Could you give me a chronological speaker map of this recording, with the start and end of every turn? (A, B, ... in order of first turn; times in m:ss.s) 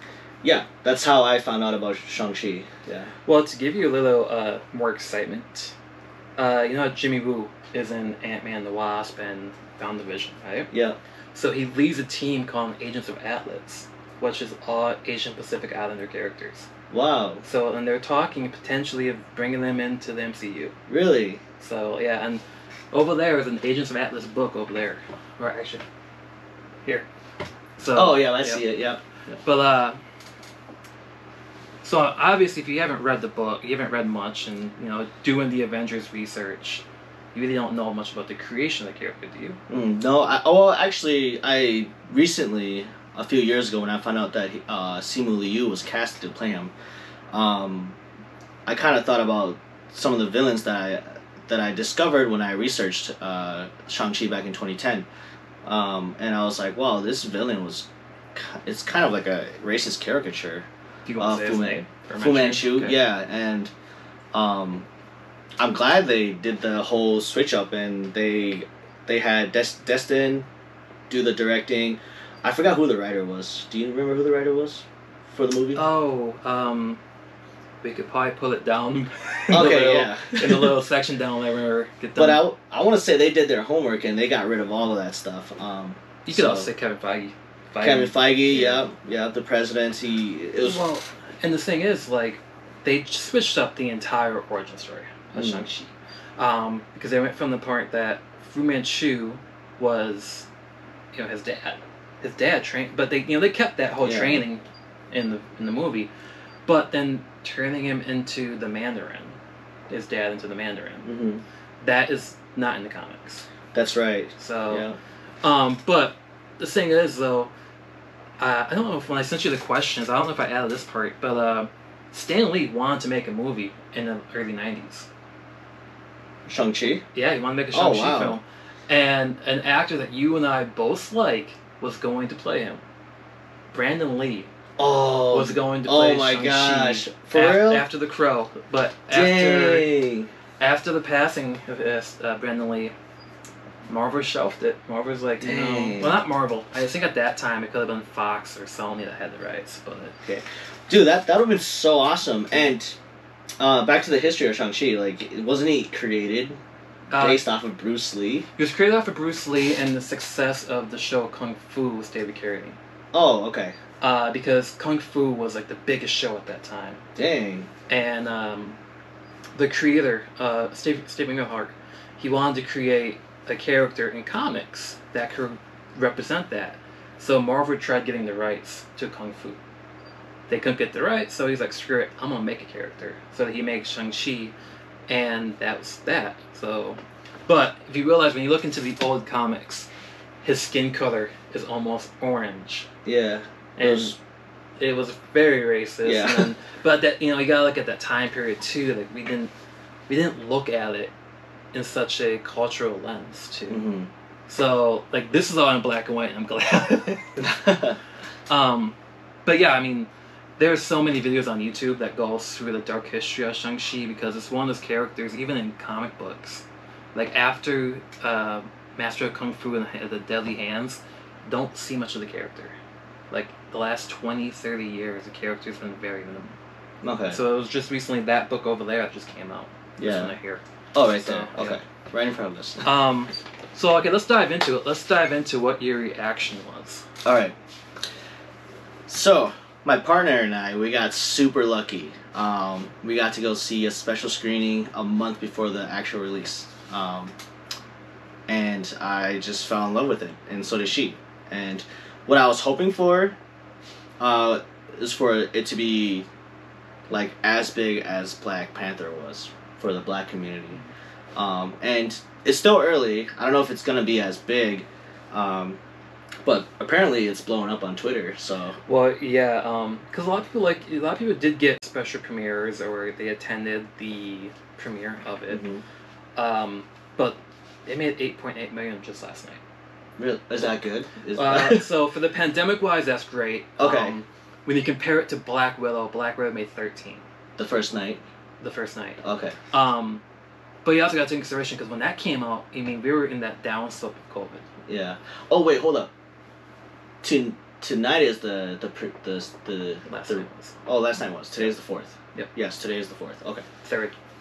0:00.4-0:03.1 A
0:03.2-0:05.8 B
0:06.4-0:10.7 B
0:10.7-0:11.0 A
0:11.3-0:16.7 B
0:16.9-0:17.4 A
0:17.4-0:20.8 B
0:20.9-0:21.4 A
0:21.6-0:25.8 B
0:27.8-0:28.7 B
0:28.0-0:29.4 A
0:29.4-0:30.0 B
0:31.8-0:39.6 B
0:39.7-0:46.7 A
0:47.3-0:48.0 A
0:48.7-0:55.1 A
0:55.6-1:00.7 A
1:01.1-1:03.0 B
1:01.2-1:03.7 A
1:04.3-1:04.9 A
1:05.6-1:10.5 A
1:11.1-1:15.8 A
1:15.8-1:17.0 B
1:17.8-1:22.4 B
1:19.5-1:20.8 A
1:22.2-1:26.7 A
1:26.3-1:28.8 B
1:27.8-1:30.8 A
1:30.6-1:40.5 B
1:35.4-1:35.6 A
1:41.1-1:46.1 B
1:44.0-1:44.4 A
1:46.7-1:49.4 B
1:49.9-1:51.1 B
1:51.0-1:51.4 A
1:51.8-1:53.5 B
1:53.7-1:55.0 A
1:54.4-1:54.9 B
1:55.4-1:57.5 B
1:58.4-2:05.1 B
2:06.5-2:07.0 A
2:07.1-2:12.8 B
2:07.7-2:08.4 A
2:13.7-2:14.5 B
2:14.8-2:17.8 A
2:15.3-2:19.9 B
2:19.1-2:20.3 A
2:20.6-2:22.9 B
2:23.9-2:30.1 B
2:25.4-2:26.2 A
2:30.2-2:33.0 A
2:33.6-2:36.6 A
2:37.1-2:37.4 B
2:37.2-2:38.5 A
2:38.6-2:42.8 B
2:43.1-2:43.8 A
2:44.0-2:47.0 B
2:47.2-2:47.7 A
2:47.9-2:48.8 B
2:49.6-2:59.6 B
3:00.5-3:04.5 B
3:05.1-3:09.9 B
3:10.4-3:12.9 B
3:13.1-3:14.2 A
3:13.8-3:14.2 B
3:14.8-3:19.5 B
3:16.0-3:16.5 A
3:20.1-3:21.1 B
3:21.7-3:23.9 B
3:23.7-3:24.1 A
3:24.5-3:27.8 B
3:27.4-3:28.0 A
3:28.5-3:42.8 B
3:43.3-3:46.5 B
3:47.0-3:47.4 A
3:47.3-3:51.8 B
3:50.0-3:50.3 A
3:51.0-3:52.9 A
3:52.8-3:57.1 B
3:57.2-3:57.6 A
3:59.1-4:07.3 A
4:08.5-4:13.4 A
4:14.2-4:16.3 A
4:17.1-4:20.8 A
4:21.4-4:25.8 A
4:26.4-4:28.8 A
4:28.9-4:35.7 B
4:35.5-4:35.8 A
4:36.4-4:39.6 B
4:40.2-4:41.9 A
4:41.4-4:47.2 B
4:43.8-4:44.2 A
4:47.6-4:48.2 A
4:48.6-4:50.2 B
4:49.2-4:49.6 A
4:50.8-4:54.6 B
4:54.9-4:56.1 A
4:57.2-5:03.7 A
5:00.1-5:00.8 B
5:03.8-5:04.2 B